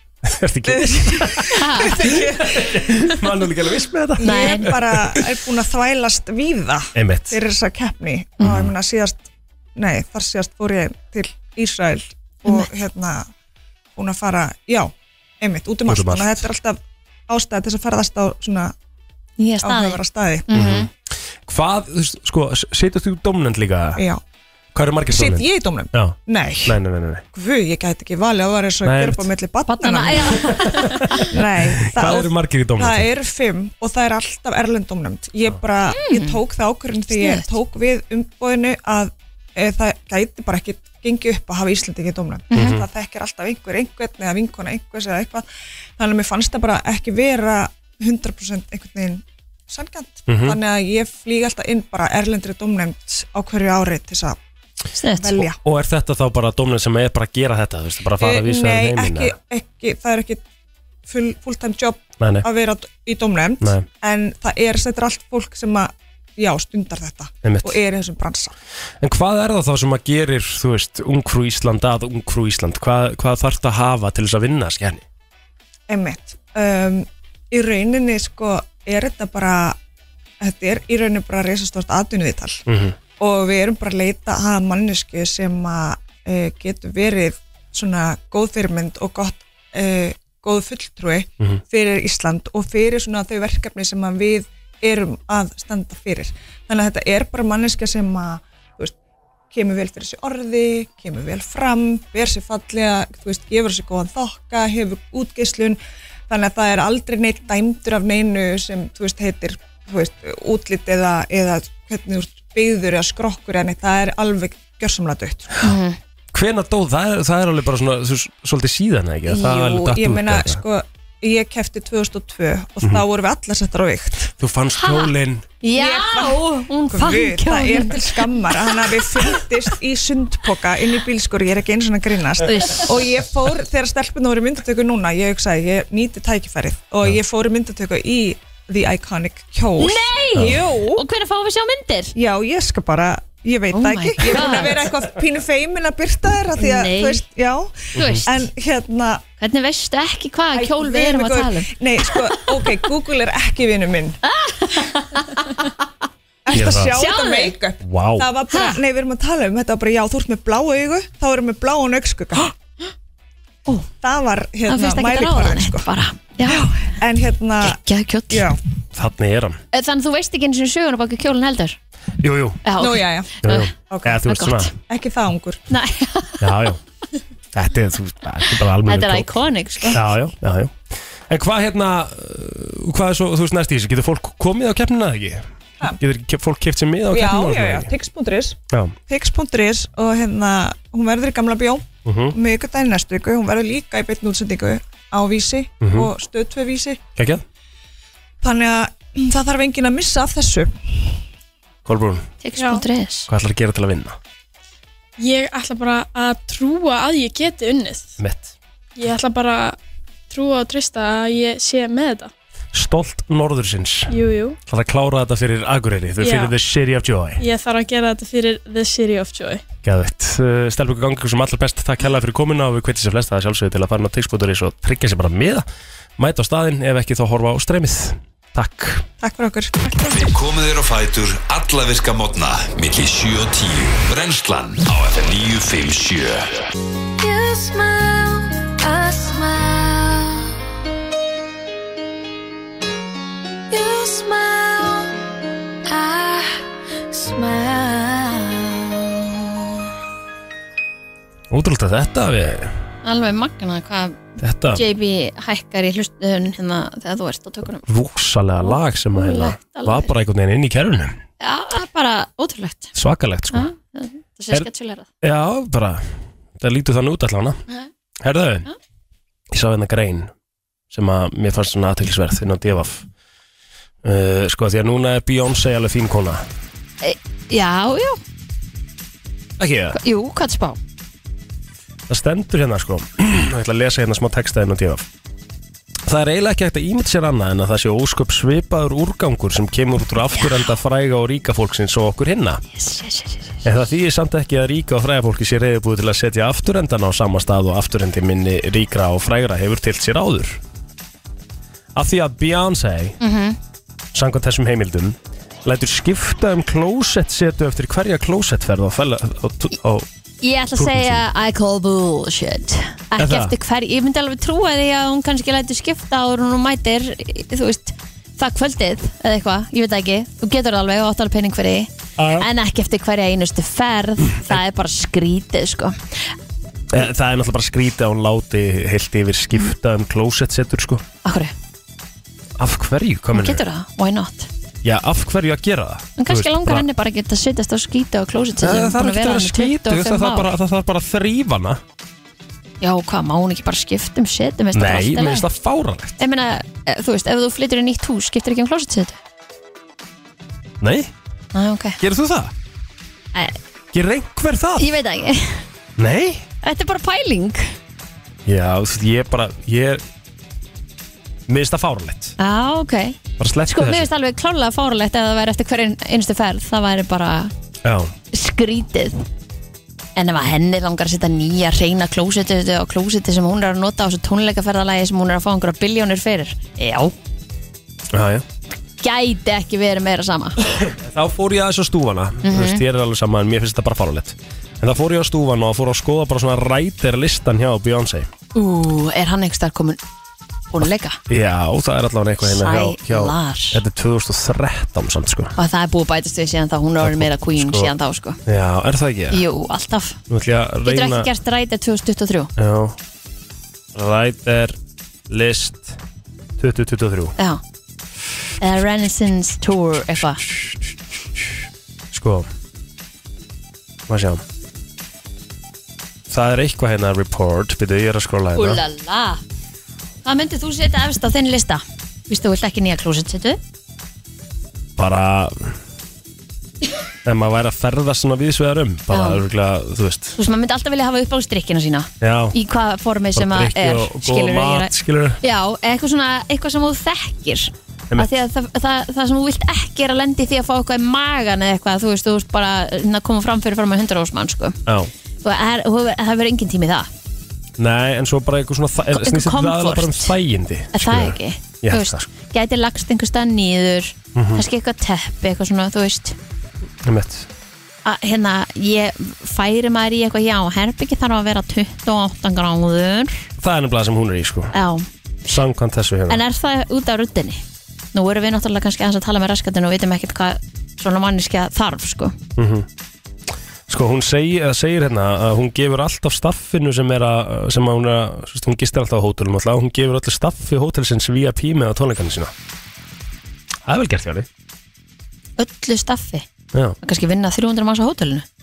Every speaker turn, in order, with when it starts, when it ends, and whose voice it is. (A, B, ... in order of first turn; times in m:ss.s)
0:00.2-0:05.2 A
0:00.7-0:02.8 B
0:01.5-0:02.0 C
0:04.2-0:13.3 B
0:04.2-0:04.7 C
0:06.9-0:07.4 A
0:08.4-0:08.6 C
0:08.4-0:08.7 A
0:14.0-0:18.7 B
0:15.8-0:16.4 A
0:19.4-0:20.9 C
0:19.6-0:20.5 B
0:20.5-0:20.9 A
0:21.4-0:24.0 A
0:24.7-0:27.2 A
0:25.1-0:26.8 B
0:27.3-0:30.4 B
0:28.8-0:29.3 A
0:29.7-0:31.3 C
0:30.4-0:31.2 A
0:31.3-0:45.4 B
0:31.8-0:33.1 A
0:35.9-0:36.4 C
0:37.1-0:37.5 C
0:42.5-0:42.8 C
0:42.5-0:42.9 A
0:46.0-0:54.4 B
0:50.3-0:50.6 A
0:54.9-0:55.5 C
0:55.2-0:55.6 B
0:55.6-0:59.3 A
0:58.2-1:00.4 B
1:01.0-1:08.5 B
1:02.2-1:02.4 A
1:03.6-1:03.9 A
1:07.4-1:07.8 A
1:09.0-1:15.0 A
1:15.9-1:19.8 B
1:20.4-1:22.6 B
1:22.7-1:23.0 A
1:23.2-1:38.9 B
1:39.5-1:55.5 B
1:55.6-1:56.0 C
1:56.3-2:00.6 A
1:59.3-2:04.3 B
2:04.4-2:05.5 A
2:04.8-2:09.1 C
2:05.7-2:21.0 B
2:12.4-2:12.9 C
2:19.8-2:22.1 C
2:20.3-2:20.6 A
2:22.2-2:29.2 B
2:23.7-2:24.8 C
2:26.6-2:27.2 C
2:27.9-2:28.3 A
2:27.9-2:28.3 C
2:29.4-2:31.8 C
2:30.5-2:34.2 B
2:34.2-2:35.7 C
2:36.4-2:42.5 B
2:36.5-2:37.0 A
2:36.5-2:37.5 C
2:37.8-2:38.3 A
2:38.5-2:38.8 C
2:44.0-2:45.9 B
2:44.7-2:46.7 C
2:46.5-2:48.6 B
2:47.6-2:48.5 C
2:48.9-2:49.6 A
2:49.7-2:51.8 C
2:52.2-2:52.6 A
2:52.6-2:53.7 C
2:52.8-2:54.2 B
2:53.4-2:54.7 A
2:54.2-2:54.7 C
2:54.8-2:55.6 B
2:55.7-2:56.5 C
2:56.4-2:56.8 A
2:57.5-2:59.3 A
2:58.8-3:00.0 C
2:59.9-3:07.9 A
3:07.1-3:17.0 B
3:08.7-3:09.0 A
3:12.0-3:12.4 A
3:15.8-3:16.1 A
3:17.2-3:17.4 A
3:18.4-3:21.2 B
3:21.8-3:22.3 A
3:22.4-3:23.3 C
3:22.6-3:22.8 D
3:23.3-3:24.2 A
3:25.2-3:28.2 D
3:28.2-3:28.5 A
3:29.0-3:29.8 D
3:30.3-3:32.3 D
3:32.7-3:34.2 A
3:34.1-3:34.6 D
3:34.7-3:37.4 A
3:36.2-3:36.5 D
3:37.4-3:39.6 D
3:39.8-3:45.6 A
3:46.2-3:49.0 A
3:49.2-3:50.1 B
3:50.0-3:56.6 E
3:57.2-4:00.5 F
4:03.7-4:05.2 F
4:05.8-4:09.4 F
4:11.5-4:12.7 A
4:13.0-4:14.2 C
4:14.4-4:14.8 A
4:14.7-4:17.8 C
4:17.8-4:21.2 A
4:18.6-4:20.1 C
4:21.4-4:22.9 C
4:22.9-4:23.7 A
4:23.5-4:25.1 C
4:25.2-4:27.6 A
4:28.2-4:28.7 A
4:29.5-4:30.3 A
4:30.9-4:33.0 A
4:34.0-4:36.4 A
4:37.0-4:38.2 C
4:39.6-4:40.0 A
4:39.9-4:40.8 C
4:42.1-4:45.0 A
4:46.0-4:52.6 A
4:50.3-4:50.7 C
4:52.7-4:53.6 C
4:53.6-5:00.6 A
5:01.9-5:03.2 A
5:03.2-5:03.6 C
5:04.1-5:10.1 A
5:10.4-5:26.3 C
5:10.7-5:11.2 A
5:13.2-5:13.5 A
5:22.2-5:22.5 A
5:24.3-5:24.6 A
5:26.9-5:31.0 A
5:31.2-5:31.5 C
5:32.6-5:33.6 A
5:33.3-5:34.5 C
5:34.8-5:36.8 A
5:36.2-5:40.5 C
5:38.6-5:41.8 A
5:42.8-5:45.5 C
5:44.7-5:46.2 A
5:46.2-5:49.2 C
5:50.8-5:51.1 A
5:51.5-5:52.0 C
5:52.0-5:52.5 A
5:53.9-5:54.9 A
5:54.8-5:55.6 C
5:56.0-5:56.4 A
5:56.6-5:57.6 C
5:58.4-6:00.0 A
6:01.5-6:02.3 A
6:02.4-6:07.5 C
6:03.4-6:04.1 A
6:07.8-6:08.1 A
6:08.3-6:09.2 C
6:10.2-6:17.1 C
6:18.1-6:18.4 A
6:19.0-6:20.6 C
6:20.6-6:28.3 A
6:22.4-6:22.8 C
6:28.5-6:30.0 C
6:30.7-6:31.2 C
6:31.3-6:35.5 A
6:32.4-6:33.8 C
6:35.6-6:38.4 C
6:37.0-6:37.9 A
6:38.4-6:39.4 A
6:39.3-6:40.2 C
6:40.3-6:41.3 A
6:40.8-6:42.5 C
6:42.6-6:43.0 A
6:43.9-6:44.8 A
6:45.3-6:46.0 A
6:46.6-6:47.3 A
6:48.6-6:50.4 C
6:50.5-6:50.8 A
6:52.1-6:52.5 A
6:54.1-6:54.4 A
6:56.3-6:58.8 A
6:58.5-6:59.4 C
7:00.2-7:03.6 C
7:05.0-7:05.8 A
7:07.2-7:10.4 A
7:09.1-7:09.4 C
7:10.4-7:24.8 C
7:12.2-7:12.6 A
7:13.3-7:15.4 A
7:24.8-7:25.1 A
7:25.4-7:27.1 C
7:27.8-7:32.3 A
7:29.1-7:30.3 C
7:30.9-7:36.4 C
7:34.3-7:34.6 A
7:37.0-7:37.5 A
7:38.0-7:43.5 C
7:43.6-7:44.7 A
7:44.7-7:45.0 C
7:45.5-7:46.4 A
7:46.3-7:47.6 C
7:48.1-7:52.4 C
7:52.6-7:52.9 A
7:53.9-8:02.5 A
8:03.8-8:04.5 A
8:05.6-8:06.4 C
8:07.0-8:08.4 C